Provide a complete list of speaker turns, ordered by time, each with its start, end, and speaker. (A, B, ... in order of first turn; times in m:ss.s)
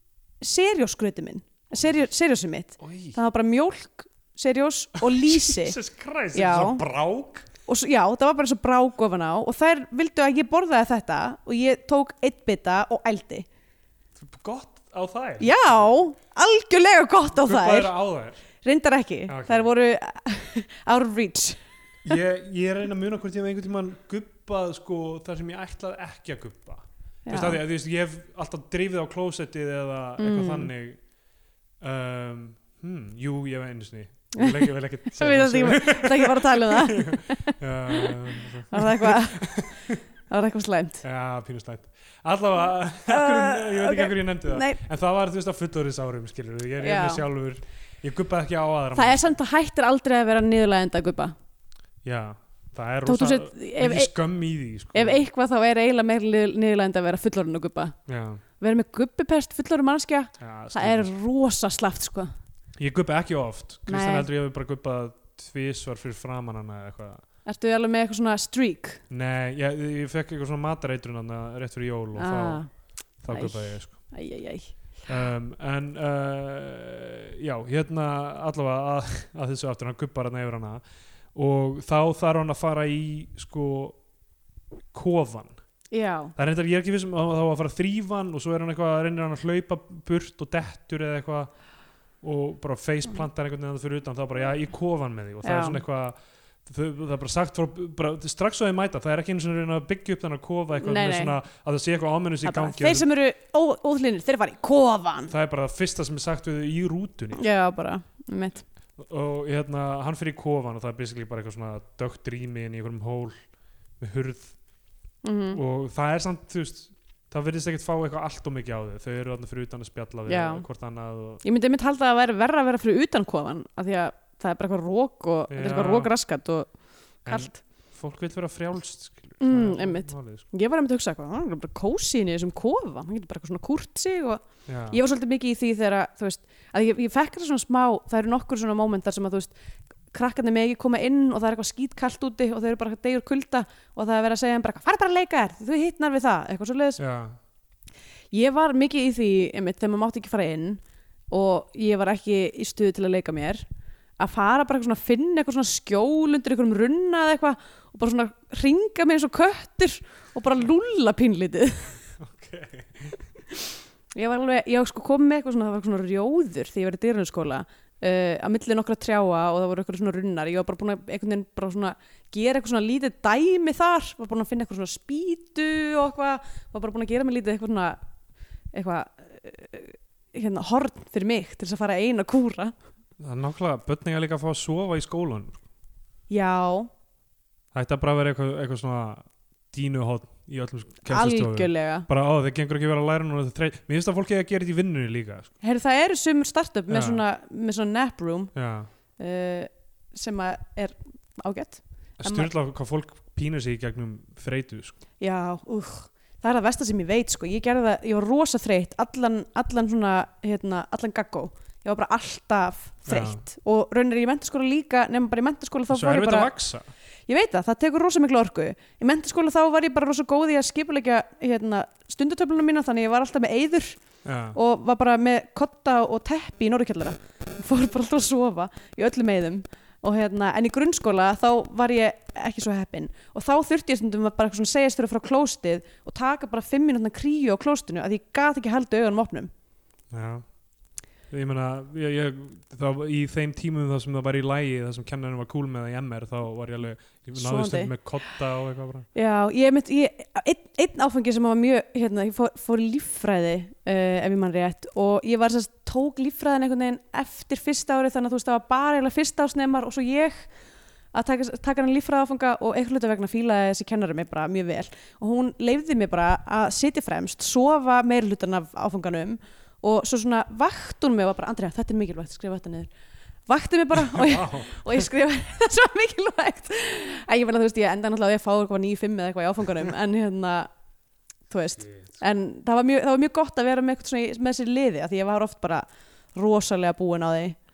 0:00.4-0:05.8 A
0:02.8-0:03.2 B
0:05.1-0:07.4 B
0:06.3-0:06.8 A
0:07.6-0:13.5 A
0:14.2-0:15.9 B
0:15.4-0:17.9 A
0:17.4-0:18.4 B
0:18.6-0:21.6 A
0:19.3-0:19.7 B
0:22.0-0:31.0 B
0:27.2-0:27.6 A
0:30.2-0:30.7 A
0:31.8-0:40.0 B
0:34.3-0:38.1 A
0:38.7-0:39.7 A
0:40.3-0:41.0 A
0:41.0-0:49.3 B
0:43.1-0:44.8 A
0:46.8-0:47.2 A
0:48.9-0:51.3 A
0:52.0-0:55.2 B
0:53.0-0:54.1 A
0:54.9-0:58.0 A
0:58.1-0:58.4 B
0:58.6-1:02.3 A
1:00.4-1:01.1 B
1:02.8-1:07.2 B
1:03.9-1:04.3 A
1:07.4-1:09.0 A
1:09.1-1:14.1 B
1:12.2-1:12.7 A
1:13.3-1:14.9 A
1:15.1-1:20.8 B
1:21.3-1:24.0 B
1:24.9-1:25.6 B
1:25.9-1:26.3 A
1:26.4-1:31.5 B
1:32.2-1:43.1 B
1:35.4-1:35.8 A
1:40.8-1:41.3 A
1:42.4-1:45.3 A
1:45.3-1:47.4 B
1:47.3-1:48.6 A
1:49.0-1:53.4 B
1:54.0-1:54.6 B
1:55.2-1:55.6 A
1:55.5-2:01.4 B
2:00.3-2:00.6 A
2:01.4-2:07.6 A
2:05.5-2:06.1 B
2:07.2-2:10.4 B
2:09.4-2:19.5 A
2:14.6-2:15.0 B
2:20.1-2:27.0 A
2:27.0-2:27.4 B
2:28.3-2:33.6 A
2:34.2-2:42.0 A
2:42.2-2:43.2 B
2:44.1-2:58.0 A
2:58.7-3:02.7 A
3:03.2-3:05.6 B
3:06.3-3:06.9 A
3:07.7-3:15.5 B
3:11.0-3:12.1 A
3:15.6-3:18.5 A
3:16.9-3:17.2 B
3:18.5-3:18.9 B
3:19.2-3:22.5 A
3:22.2-3:25.0 B
3:25.2-3:36.5 A
3:33.0-3:33.4 B
3:35.9-3:36.9 B
3:37.3-3:59.5 A
3:44.2-3:44.6 B
4:00.1-4:00.5 B
4:01.3-4:09.1 B
4:07.4-4:07.9 A
4:09.1-4:20.5 A
4:21.1-4:32.9 A
4:33.5-4:40.7 A
4:33.9-4:35.0 B
4:41.5-4:47.6 A
4:41.8-4:42.1 B